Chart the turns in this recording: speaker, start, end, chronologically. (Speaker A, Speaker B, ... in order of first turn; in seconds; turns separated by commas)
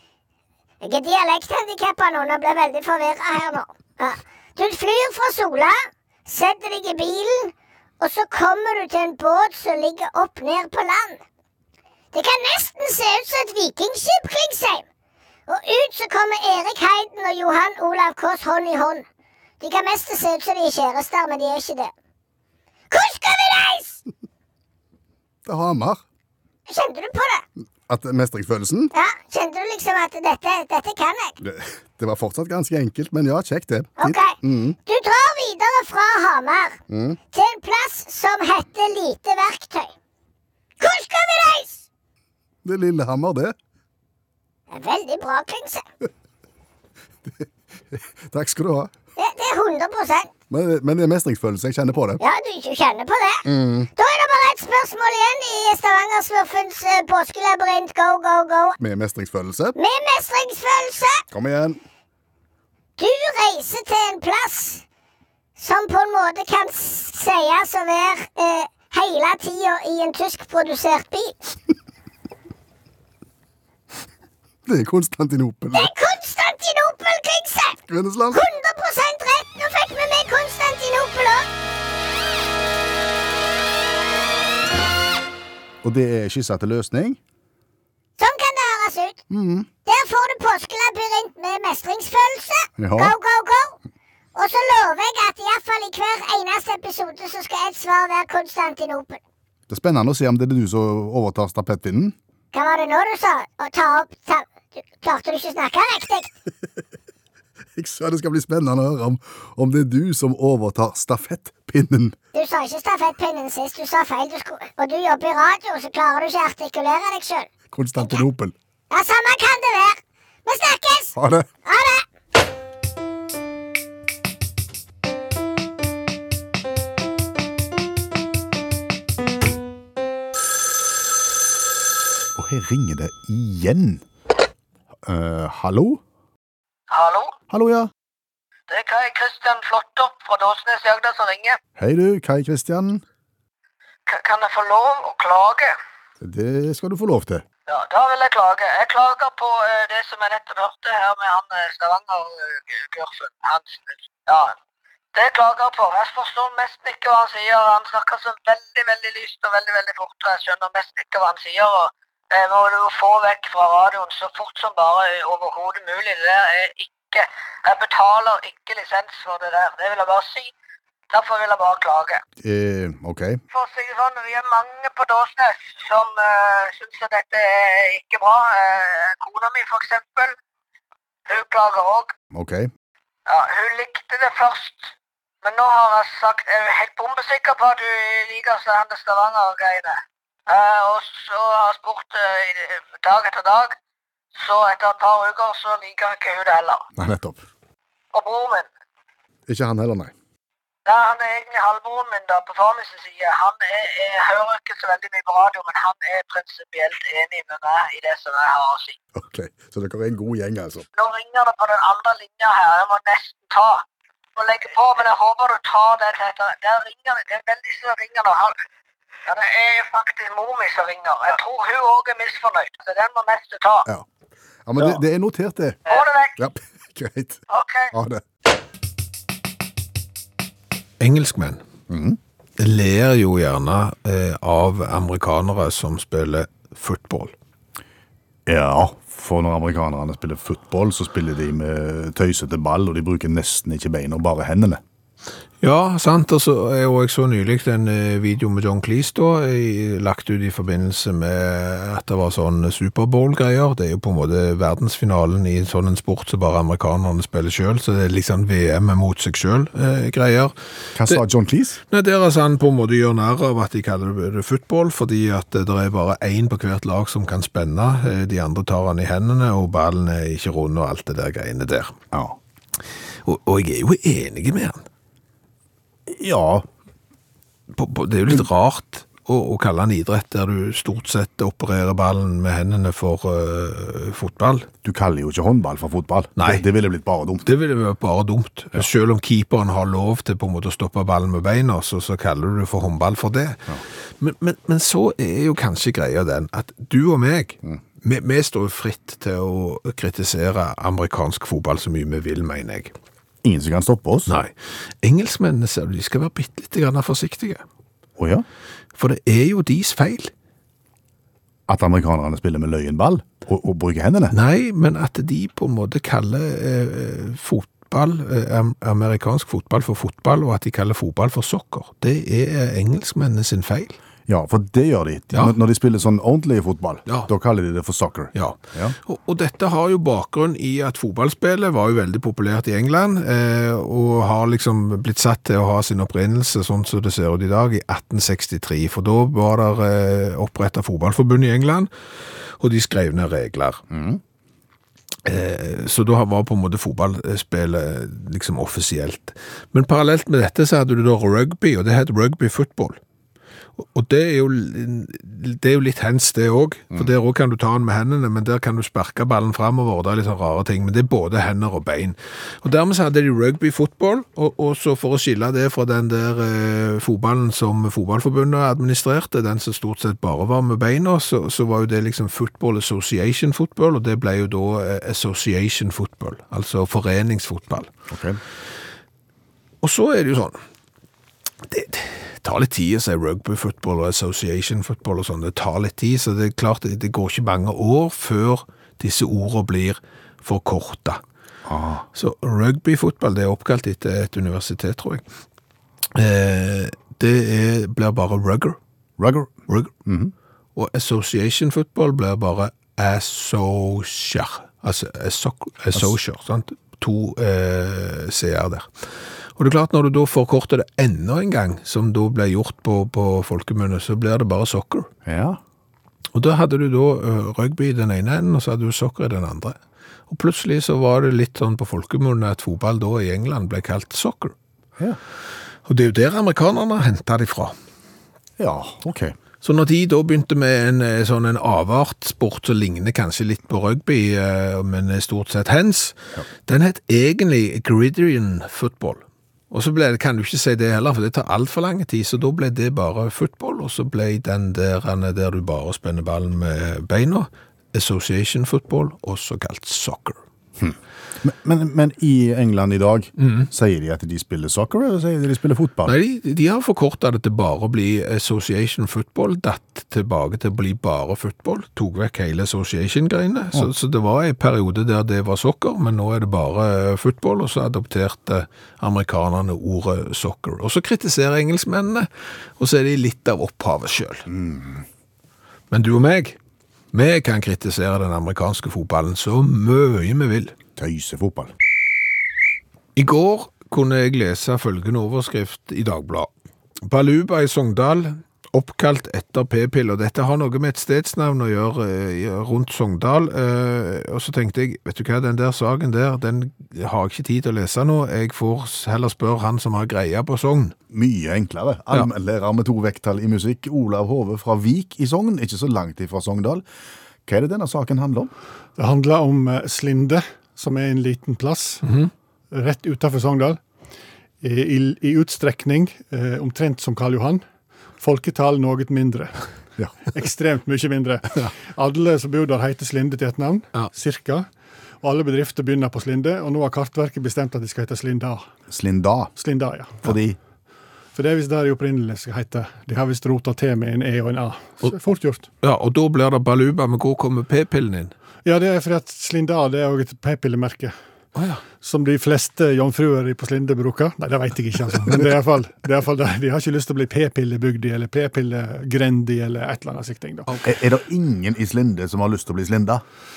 Speaker A: 0.8-11.2, Speaker A: 12.1-14.9, Speaker A: 15.5-19.1, Speaker A: 19.6-21.9, Speaker A: 22.9-24.0, Speaker B: 25.4-26.0, Speaker A: 26.7-27.5, Speaker B: 27.9-28.9, Speaker A: 28.9-31.4, Speaker B: 31.4-34.8, Speaker A: 34.0-36.8, Speaker B: 36.9-37.2, Speaker A: 37.3-40.0, Speaker A: 40.8-41.9, Speaker B: 42.6-43.5, Speaker A: 44.7-45.9, Speaker B: 47.3-48.9, Speaker A: 49.2-50.3, Speaker B: 50.5-52.2, Speaker A: 52.2-58.8, Speaker B: 53.5-53.9, Speaker B: 58.8-59.8, Speaker A: 59.8-61.2, Speaker B: 61.3-61.8, Speaker A: 63.0-64.8, Speaker A: 65.6-71.3, Speaker B: 74.7-75.9, Speaker A: 75.7-77.8, Speaker B: 77.9-78.4, Speaker A: 78.3-81.5, Speaker B: 85.8-87.2, Speaker A: 88.2-89.2, Speaker B: 89.3-89.7, Speaker A: 89.9-93.8, Speaker B: 92.8-93.1, Speaker A: 94.3-99.2, Speaker B: 99.7-102.2, Speaker A: 102.5-106.3, Speaker B: 107.8-112.2, Speaker A: 112.3-117.5, Speaker B: 117.7-118.5, Speaker A: 118.9-122.0, Speaker B: 121.2-121.5, Speaker B: 132.3-134.0, Speaker B: 135.1-136.0, Speaker C: 136.9-137.3, Speaker B: 137.5-137.9, Speaker C: 138.7-141.6, Speaker B: 141.8-143.0, Speaker C: 144.1-145.8, Speaker B: 146.2-147.4, Speaker C: 147.7-154.6, Speaker C: 155.2-170.5, Speaker C: 171.1-172.2, Speaker B: 172.4-173.4, Speaker C: 173.5-180.3, Speaker C: 181.3-182.1, Speaker B: 182.3-182.7, Speaker C: 183.3-184.9, Speaker C: 185.4-193.8, Speaker C: 194.3-196.8, Speaker B: 197.0-197.4, Speaker C: 198.1-198.7, Speaker B: 199.5-200.1, Speaker C: 200.9-209.0, Speaker B: 209.2-210.9, Speaker C: 211.0-213.8, Speaker C: 214.4-218.6, Speaker C: 219.3-223.9, Speaker B: 224.7-225.8, Speaker C: 225.9-226.4, Speaker B: 226.4-227.4, Speaker C: 227.5-227.9, Speaker B: 227.9-228.2, Speaker D: 231.0-231.6, Speaker B: 231.9-232.2, Speaker D: 232.6-237.3, Speaker B: 238.5-244.8, Speaker D: 245.6-260.5, Speaker B: 260.9-261.8, Speaker D: 261.9-271.9, Speaker B: 272.1-272.4, Speaker D: 273.2-274.8, Speaker B: 276.1-276.7, Speaker D: 277.7-284.7, Speaker B: 284.8-287.5, Speaker D: 286.4-286.6, Speaker D: 287.4-302.9, Speaker B: 303.4-304.3, Speaker D: 304.3-307.6, Speaker B: 308.2-308.4, Speaker D: 309.0-310.3, Speaker B: 311.7-314.4, Speaker D: 314.3-324.0, Speaker B: 324.3-329.0, Speaker D: 328.4-341.9, Speaker D: 342.6-343.8, Speaker B: 343.9-344.2, Speaker D: 345.2-353.0, Speaker D: 353.8-377.9, Speaker B: 378.1-378.4, Speaker D: 379.8-380.6, Speaker D: 381.6-391.2, Speaker B: 391.7-392.1, Speaker D: 392.1-395.2, Speaker D: 396.1-398.8, Speaker B: 399.2-399.5, Speaker B: 400.1-400.3, Speaker D: 400.8-415.1, Speaker B: 415.2-415.6, Speaker D: 416.3-419.8, Speaker D: 420.3-424.5, Speaker D: 425.9-427.7, Speaker B: 428.6-429.4, Speaker D: 429.6-450.4, Speaker B: 450.8-456.1, Speaker D: 453.4-453.7, Speaker D: 456.1-474.5, Speaker B: 474.5-475.1, Speaker D: 475.9-476.6, Speaker D: 477.1-480.8, Speaker B: 481.0-481.7, Speaker D: 483.2-486.5, Speaker D: 487.1-500.9, Speaker B: 501.1-506.9, Speaker B: 507.5-508.5, Speaker E: 509.0-512.0, Speaker D: 512.0-512.3, Speaker E: 512.7-513.8, Speaker E: 514.6-517.6, Speaker E: 518.2-519.6, Speaker E: 520.3-524.7, Speaker E: 525.2-528.7, Speaker B: 528.9-529.5, Speaker E: 529.6-530.2, Speaker B: 530.2-530.6, Speaker E: 531.4-535.7, Speaker D: 535.8-538.3, Speaker E: 538.6-541.2, Speaker D: 541.5-541.8, Speaker E: 542.0-550.7, Speaker B: 550.9-553.2